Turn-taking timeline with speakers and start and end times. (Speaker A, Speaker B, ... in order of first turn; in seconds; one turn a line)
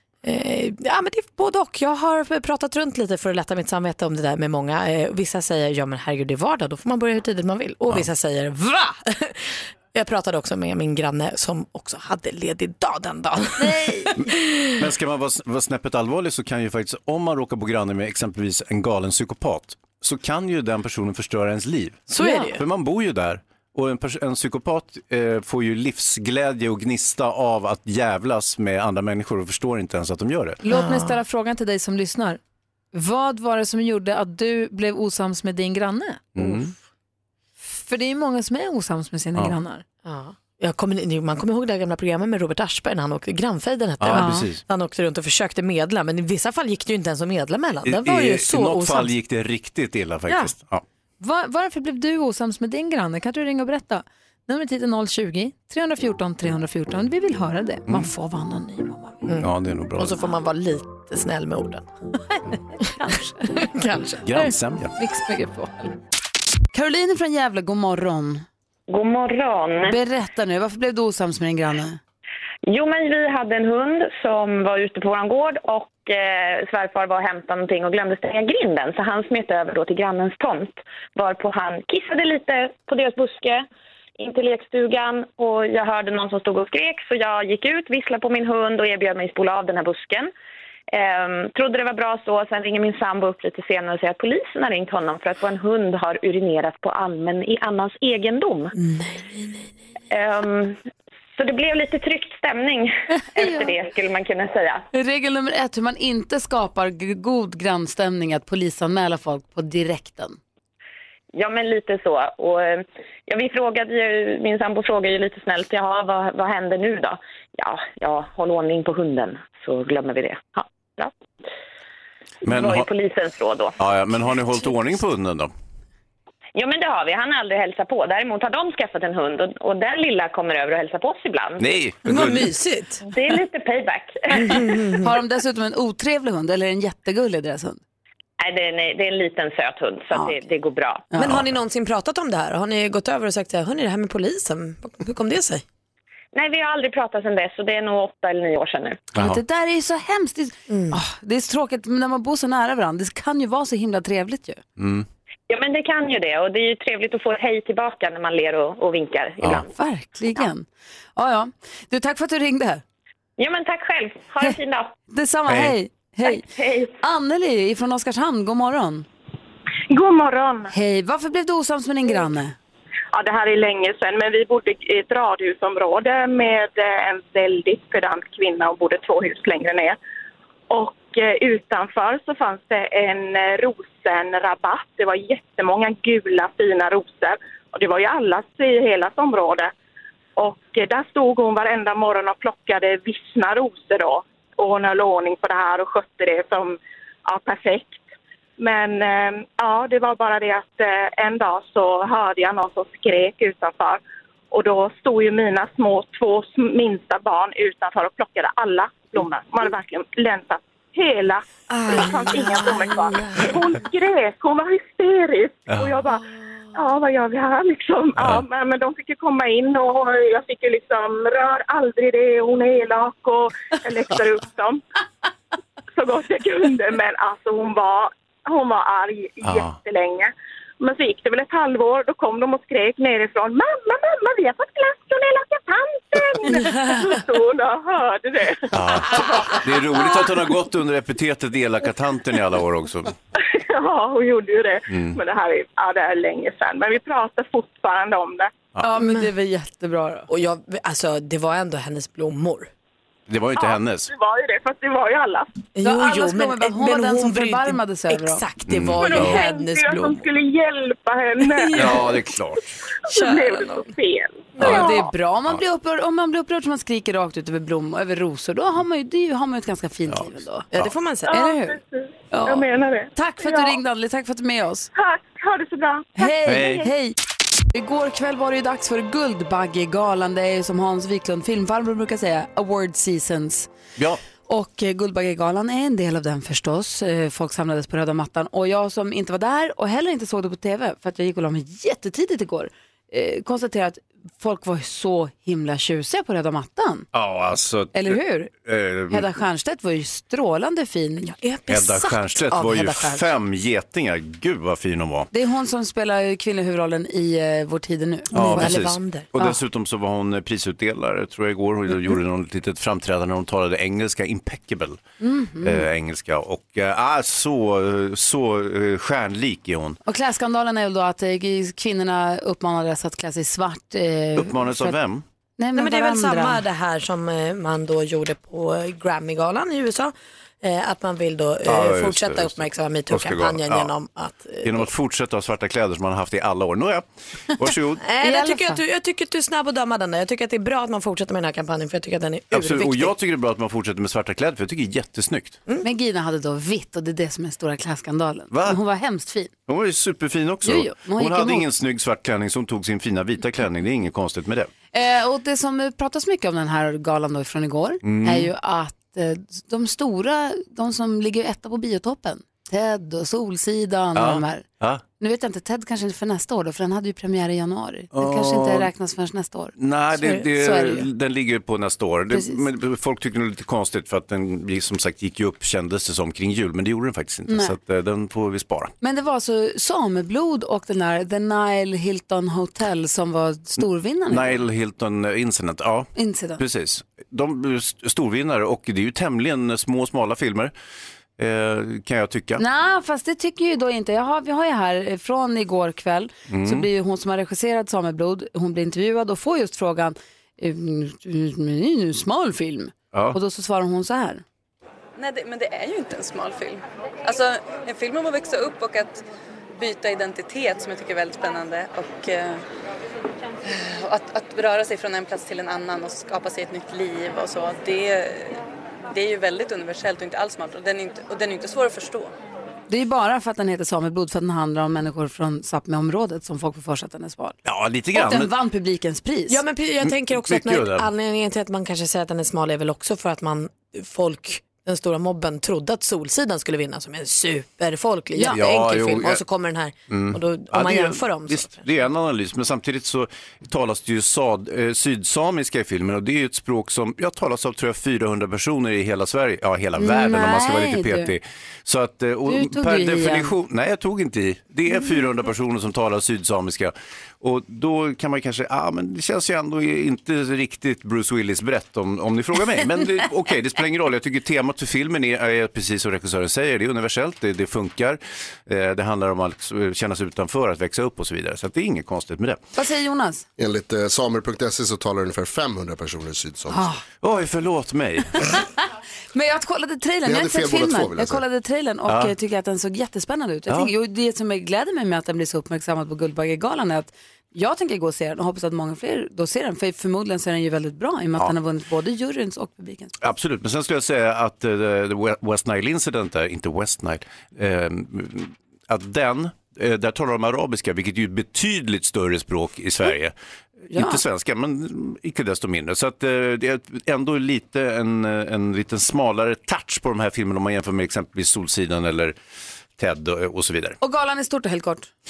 Speaker A: 0.2-14.8
Speaker B: 13.6-14.2
Speaker C: 14.8-30.6
Speaker A: 22.1-22.6
Speaker B: 30.6-32.4
Speaker A: 30.7-31.1
Speaker B: 32.9-36.4
Speaker C: 36.4-36.7
Speaker B: 37.6-39.8
Speaker A: 40.0-49.1
Speaker C: 44.0-44.6
Speaker B: 44.1-44.5
Speaker C: 47.8-50.8
Speaker B: 51.2-59.3
Speaker A: 59.3-61.9
Speaker C: 59.4-60.2
Speaker B: 62.5-63.6
Speaker A: 63.5-64.4
Speaker C: 64.2-64.9
Speaker B: 65.0-66.0
Speaker B: 66.7-68.4
Speaker D: 68.9-70.0
Speaker B: 69.8-72.0
Speaker D: 72.7-83.7
Speaker D: 84.2-90.3
Speaker D: 90.9-98.8
Speaker A: 98.8-99.7
Speaker D: 100.1-100.8
Speaker D: 101.4-104.9
Speaker B: 103.3-103.7
Speaker B: 104.9-110.4
Speaker D: 111.3-121.1
Speaker C: 122.4-122.9
Speaker D: 122.5-123.8
Speaker C: 123.8-125.5
Speaker D: 126.5-131.9
Speaker C: 131.6-132.5
Speaker A: 132.1-133.0
Speaker D: 133.1-134.8
Speaker A: 134.4-135.1
Speaker B: 135.0-137.8
Speaker D: 138.4-141.1
Speaker B: 140.1-140.4
Speaker A: 141.2-145.6
Speaker D: 146.3-149.1
Speaker C: 149.1-149.4
Speaker B: 149.2-154.6
Speaker A: 150.7-151.0
Speaker C: 154.8-155.1
Speaker D: 155.5-159.7
Speaker C: 159.4-159.7
Speaker B: 159.7-162.8
Speaker D: 163.4-164.9
Speaker B: 165.1-166.5
Speaker C: 165.5-165.8
Speaker D: 166.3-166.9
Speaker B: 167.0-169.1
Speaker E: 169.9-170.7
Speaker B: 170.7-172.6
Speaker E: 173.1-180.0
Speaker E: 180.7-189.7
Speaker E: 190.4-198.0
Speaker E: 198.6-204.0
Speaker E: 204.5-224.8
Speaker A: 211.7-213.6
Speaker C: 215.7-216.0
Speaker C: 218.2-218.4
Speaker E: 225.9-240.2
Speaker C: 229.4-229.7
Speaker C: 238.7-243.2
Speaker E: 243.4-248.5
Speaker C: 244.9-245.2
Speaker B: 248.8-250.3
Speaker A: 249.0-249.3
Speaker A: 250.3-252.7
Speaker C: 253.3-254.1
Speaker E: 253.6-255.6
Speaker A: 255.8-260.3
Speaker B: 255.8-258.4
Speaker C: 258.7-259.4
Speaker E: 259.0-262.2
Speaker A: 261.4-262.2
Speaker C: 261.7-262.6
Speaker E: 263.0-265.0
Speaker A: 263.1-263.9
Speaker C: 264.6-265.0
Speaker A: 264.6-264.9
Speaker B: 264.6-270.7
Speaker C: 270.1-270.9
Speaker A: 270.7-271.7
Speaker B: 271.3-271.8
Speaker E: 271.3-273.8
Speaker B: 272.3-274.9
Speaker E: 274.9-276.3
Speaker B: 276.2-277.2
Speaker C: 276.5-276.9
Speaker B: 277.7-283.7
Speaker B: 284.5-297.1
Speaker C: 297.1-299.3
Speaker B: 297.9-298.5
Speaker B: 299.1-301.4
Speaker A: 301.4-303.2
Speaker C: 301.7-305.3
Speaker B: 305.3-308.8
Speaker C: 308.3-315.0
Speaker A: 308.3-309.3
Speaker B: 315.2-315.9
Speaker C: 315.6-320.0
Speaker B: 320.1-324.9
Speaker C: 324.4-325.2
Speaker B: 325.6-326.6
Speaker A: 325.7-334.9
Speaker C: 331.6-333.9
Speaker C: 334.6-338.0
Speaker A: 338.0-343.1
Speaker B: 338.2-338.8
Speaker C: 342.5-345.6
Speaker B: 345.8-349.5
Speaker C: 348.5-348.8
Speaker C: 349.7-354.7
Speaker B: 350.6-351.7
Speaker B: 354.9-364.6
Speaker C: 358.0-358.5
Speaker C: 364.1-365.0
Speaker B: 365.2-369.7
Speaker C: 368.1-368.9
Speaker C: 369.8-378.9
Speaker B: 370.5-371.1
Speaker B: 372.3-372.6
Speaker B: 377.5-377.8
Speaker B: 379.0-384.6
Speaker C: 384.3-390.7
Speaker B: 386.2-386.6
Speaker C: 391.4-392.6
Speaker B: 392.6-404.4
Speaker C: 396.5-396.9
Speaker C: 403.1-403.4
Speaker F: 405.2-409.2
Speaker F: 409.8-412.6
Speaker F: 413.7-422.3
Speaker B: 422.9-427.6
Speaker C: 427.6-428.5
Speaker B: 428.1-429.6
Speaker A: 429.5-441.8
Speaker C: 430.0-431.1
Speaker B: 438.3-438.6
Speaker C: 438.5-439.4
Speaker C: 440.1-472.6
Speaker B: 450.0-451.3
Speaker B: 452.5-453.6
Speaker B: 472.8-473.5
Speaker G: 473.6-476.9
Speaker B: 476.7-477.0
Speaker C: 477.2-478.3
Speaker B: 479.3-493.2
Speaker G: 480.3-481.4
Speaker C: 482.1-482.3
Speaker C: 493.2-512.4
Speaker B: 503.9-504.2
Speaker C: 513.0-514.0
Speaker B: 514.0-515.1